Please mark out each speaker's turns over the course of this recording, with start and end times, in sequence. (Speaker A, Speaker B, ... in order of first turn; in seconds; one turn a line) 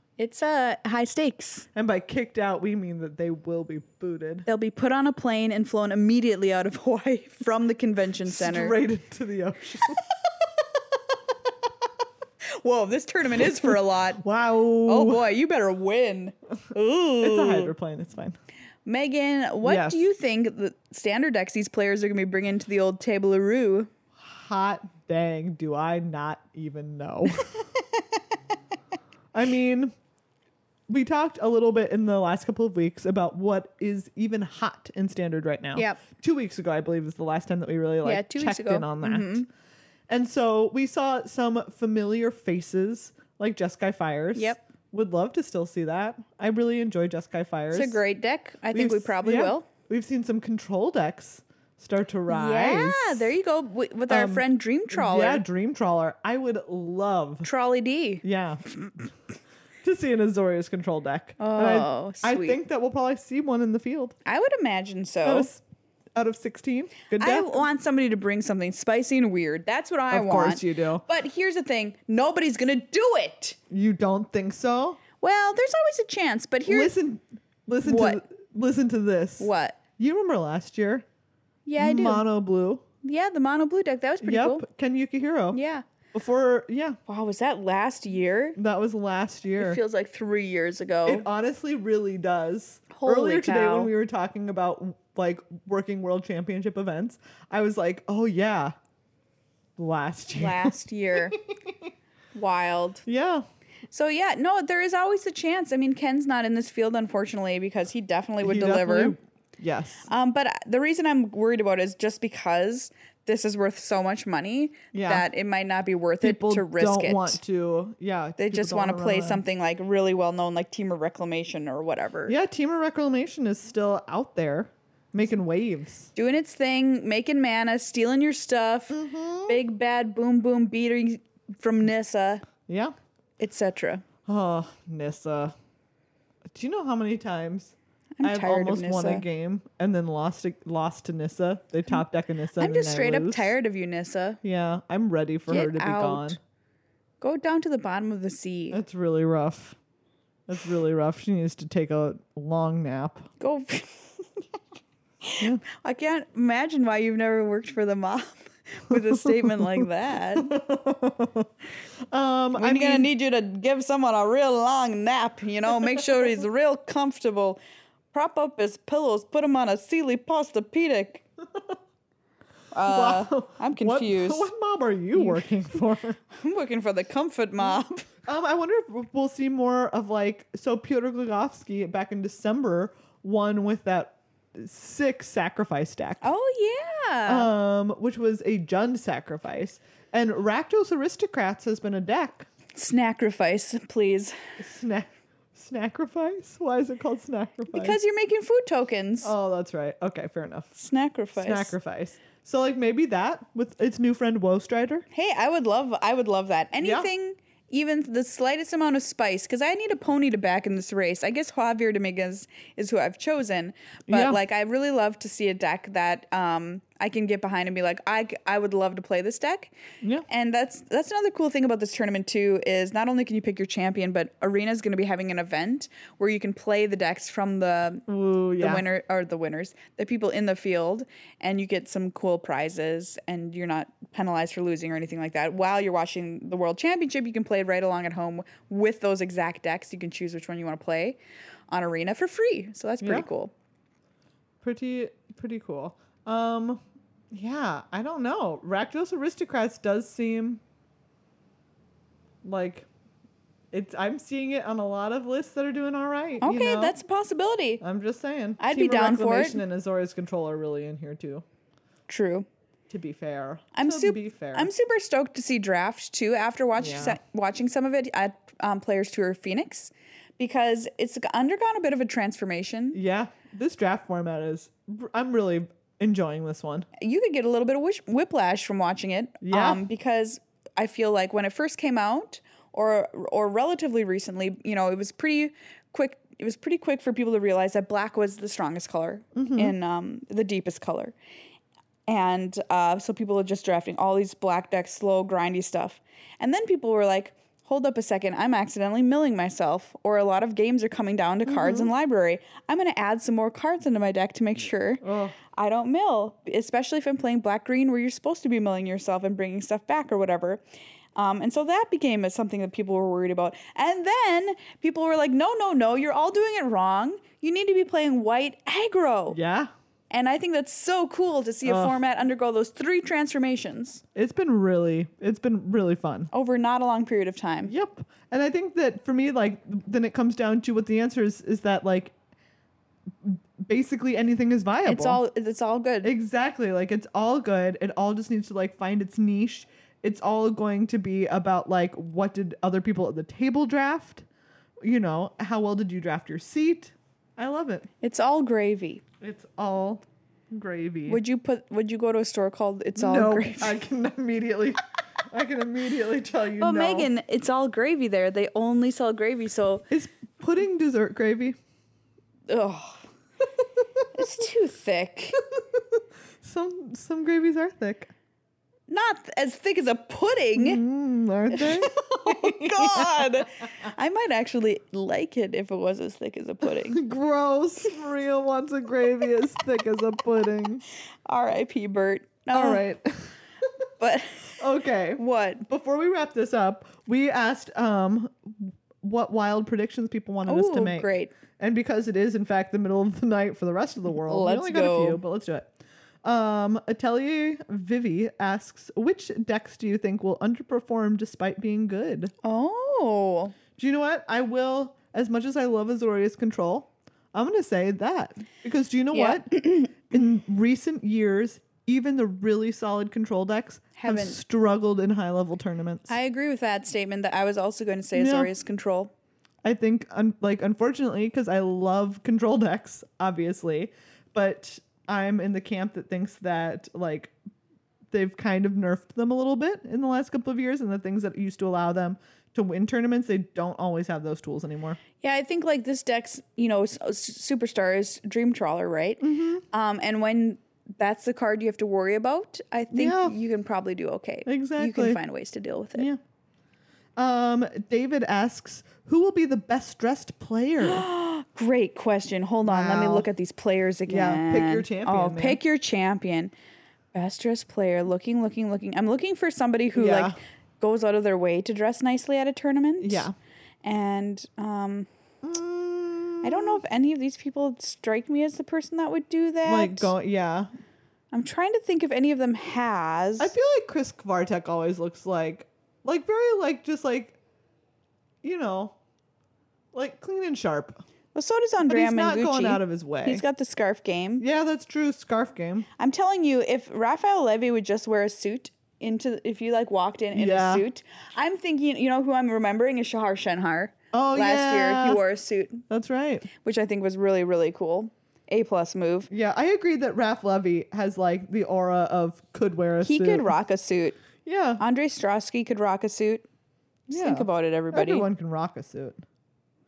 Speaker A: 0.2-1.7
Speaker B: 1.7-4.5
Speaker A: 4.5-8.8
Speaker B: 8.2-10.0
Speaker A: 12.6-14.2
Speaker B: 13.3-15.2
Speaker A: 14.8-17.7
Speaker B: 17.2-18.4
Speaker A: 18.9-23.9
Speaker B: 19.6-20.0
Speaker B: 24.2-27.6
Speaker B: 29.3-29.9
Speaker B: 30.9-39.4
Speaker A: 35.7-36.0
Speaker A: 38.0-39.5
Speaker B: 40.1-48.0
Speaker A: 44.3-44.6
Speaker A: 47.7-49.7
Speaker B: 48.7-53.3
Speaker A: 52.3-55.4
Speaker B: 54.1-57.5
Speaker A: 57.4-58.2
Speaker B: 58.2-58.6
Speaker B: 59.8-64.1
Speaker A: 61.4-62.6
Speaker A: 64.2-65.5
Speaker B: 65.2-65.6
Speaker B: 66.1-67.6
Speaker A: 67.2-73.6
Speaker B: 70.1-71.0
Speaker B: 73.7-75.0
Speaker A: 75.2-76.9
Speaker B: 76.7-81.0
Speaker A: 77.8-78.2
Speaker A: 79.4-79.8
Speaker A: 81.7-82.2
Speaker B: 81.8-82.8
Speaker A: 83.0-84.6
Speaker B: 84.2-85.6
Speaker A: 85.5-85.8
Speaker B: 86.1-87.0
Speaker A: 87.1-88.6
Speaker B: 88.5-89.8
Speaker A: 89.6-91.2
Speaker B: 91.0-98.7
Speaker A: 92.9-93.9
Speaker B: 99.8-101.9
Speaker A: 100.3-101.4
Speaker A: 102.3-103.0
Speaker B: 103.0-103.4
Speaker A: 103.9-109.1
Speaker B: 108.4-110.1
Speaker A: 110.1-117.4
Speaker B: 114.9-115.2
Speaker B: 116.2-119.4
Speaker A: 118.4-122.3
Speaker B: 122.3-126.1
Speaker A: 126.2-132.4
Speaker B: 128.9-129.6
Speaker B: 132.7-132.9
Speaker A: 133.4-134.0
Speaker B: 134.2-135.5
Speaker B: 136.5-143.5
Speaker A: 138.2-139.2
Speaker A: 142.6-144.4
Speaker B: 144.4-146.4
Speaker A: 145.5-146.4
Speaker A: 147.2-148.8
Speaker B: 148.7-149.8
Speaker B: 150.5-153.3
Speaker A: 153.4-154.1
Speaker A: 155.2-160.5
Speaker B: 158.9-161.5
Speaker B: 162.1-163.1
Speaker A: 162.5-167.6
Speaker A: 168.1-171.2
Speaker A: 172.7-174.5
Speaker B: 172.8-176.2
Speaker A: 175.1-175.5
Speaker A: 176.3-178.1
Speaker B: 178.2-186.2
Speaker A: 186.2-187.5
Speaker B: 187.2-192.5
Speaker A: 192.7-194.3
Speaker B: 194.6-198.0
Speaker A: 197.7-199.3
Speaker B: 199.2-200.7
Speaker A: 200.8-201.7
Speaker B: 201.3-205.0
Speaker A: 205.1-219.7
Speaker B: 206.8-207.1
Speaker B: 214.1-214.4
Speaker A: 220.3-228.1
Speaker B: 228.1-228.8
Speaker A: 228.6-241.2
Speaker A: 241.7-243.5
Speaker B: 243.0-243.3
Speaker B: 244.6-250.6
Speaker B: 252.4-252.9
Speaker B: 253.7-257.0
Speaker A: 256.4-257.8
Speaker B: 257.8-261.4
Speaker A: 258.6-259.6
Speaker A: 262.1-262.4
Speaker B: 262.9-264.7
Speaker A: 263.7-273.0
Speaker B: 266.8-267.2
Speaker B: 272.9-276.9
Speaker A: 277.0-291.1
Speaker B: 279.4-279.8
Speaker B: 289.3-289.7
Speaker A: 292.1-310.6
Speaker B: 301.4-301.9
Speaker B: 305.0-305.4
Speaker A: 311.1-319.4
Speaker B: 319.3-319.7
Speaker A: 320.1-324.0
Speaker B: 321.6-322.0
Speaker B: 324.1-326.3
Speaker A: 326.3-327.7
Speaker B: 327.6-332.1
Speaker B: 333.2-335.2
Speaker A: 334.8-336.1
Speaker B: 336.0-344.2
Speaker B: 344.8-347.9
Speaker A: 348.0-349.0
Speaker B: 349.2-351.2
Speaker A: 351.1-353.8
Speaker B: 352.9-357.1
Speaker A: 356.6-359.9
Speaker B: 359.9-361.6
Speaker A: 362.5-363.1
Speaker A: 364.1-365.4
Speaker B: 365.5-368.1
Speaker A: 368.9-370.8
Speaker B: 370.5-373.4
Speaker A: 371.5-377.0
Speaker B: 376.6-380.8
Speaker A: 381.3-382.8
Speaker B: 382.5-383.3
Speaker A: 384.0-384.6
Speaker B: 384.6-395.7
Speaker A: 385.2-385.6
Speaker A: 390.4-391.3
Speaker A: 394.1-395.2
Speaker B: 396.2-402.3
Speaker A: 402.4-403.5
Speaker B: 403.8-416.1
Speaker A: 409.1-409.9
Speaker A: 413.9-414.4
Speaker A: 416.1-419.1
Speaker B: 418.1-418.5
Speaker B: 419.6-427.3
Speaker B: 428.1-435.0
Speaker A: 435.2-446.1
Speaker B: 439.2-439.6
Speaker B: 442.9-443.3
Speaker B: 444.4-445.2
Speaker B: 447.1-451.0
Speaker A: 450.8-456.5
Speaker B: 452.6-453.3
Speaker B: 454.1-455.6
Speaker A: 457.1-463.3
Speaker B: 459.9-460.4
Speaker B: 463.0-463.3
Speaker A: 463.8-465.1
Speaker B: 465.4-466.8
Speaker A: 466.4-470.1
Speaker B: 469.6-470.7
Speaker A: 471.3-473.5
Speaker B: 473.4-477.4
Speaker B: 478.4-478.9
Speaker B: 479.9-481.0
Speaker A: 481.3-484.4
Speaker B: 481.8-483.4
Speaker B: 484.4-485.9
Speaker A: 486.0-495.8
Speaker B: 490.3-490.8
Speaker B: 494.1-495.2
Speaker B: 495.9-496.5
Speaker A: 496.6-499.3
Speaker B: 499.3-503.5
Speaker A: 503.0-504.2
Speaker B: 504.4-504.8
Speaker A: 504.8-506.4
Speaker A: 507.1-508.2
Speaker B: 507.1-509.2